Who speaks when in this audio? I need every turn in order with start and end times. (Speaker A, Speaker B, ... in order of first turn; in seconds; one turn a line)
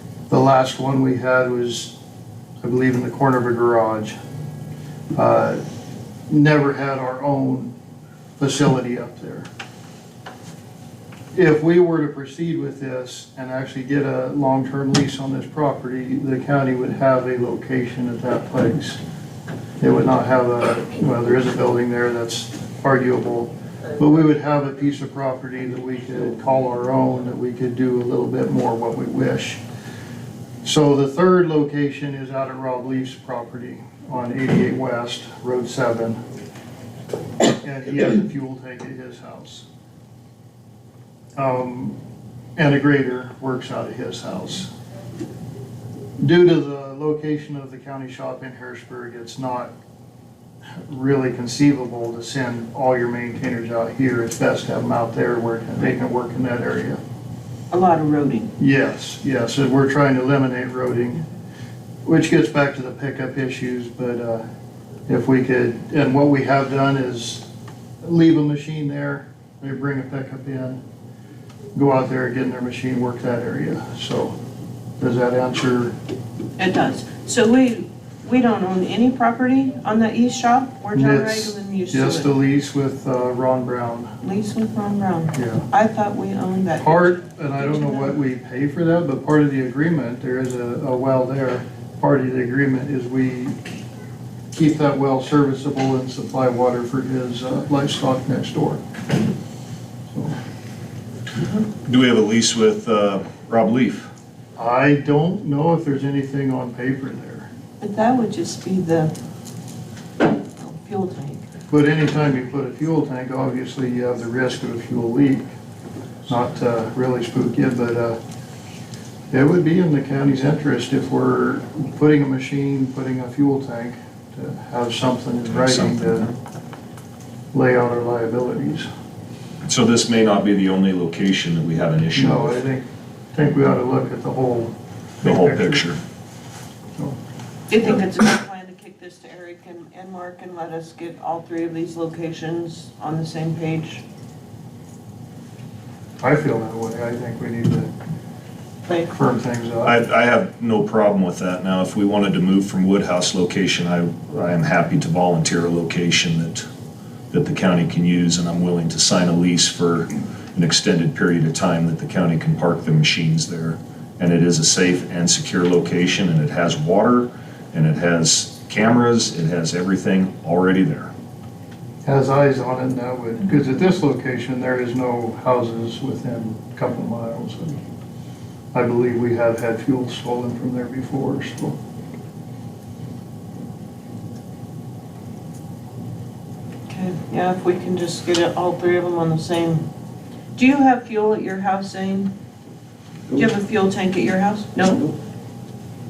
Speaker A: 0.3-2.0
Speaker A: 2.6-4.2
Speaker A: 5.2-5.6
Speaker A: 6.3-7.7
Speaker A: 8.4-9.5
Speaker A: 11.3-19.0
Speaker A: 19.8-29.6
Speaker A: 30.6-36.2
Speaker A: 37.6-39.7
Speaker A: 41.4-42.0
Speaker A: 42.6-44.7
Speaker A: 46.2-49.7
Speaker A: 50.9-57.0
Speaker B: 57.7-58.5
Speaker A: 58.6-61.2
Speaker A: 62.0-64.4
Speaker A: 65.1-67.5
Speaker A: 68.0-70.8
Speaker A: 71.7-74.3
Speaker A: 75.0-75.9
Speaker B: 76.6-82.3
Speaker A: 80.9-84.1
Speaker B: 84.2-88.1
Speaker A: 85.3-85.6
Speaker A: 86.8-93.6
Speaker A: 94.5-98.8
Speaker A: 100.1-100.3
Speaker C: 101.8-104.1
Speaker A: 104.6-107.5
Speaker B: 107.8-109.1
Speaker B: 110.4-111.4
Speaker A: 111.7-115.5
Speaker A: 116.3-118.2
Speaker A: 119.3-126.3
Speaker C: 125.5-126.3
Speaker A: 127.5-128.9
Speaker C: 129.7-132.6
Speaker A: 132.2-135.8
Speaker C: 135.2-136.0
Speaker B: 137.7-144.0
Speaker A: 146.2-147.9
Speaker A: 149.1-150.0
Speaker C: 149.8-156.7
Speaker C: 157.3-171.1
Speaker A: 172.1-177.8
Speaker A: 178.7-181.8
Speaker B: 186.9-189.9
Speaker B: 190.6-192.3
Speaker B: 193.3-195.1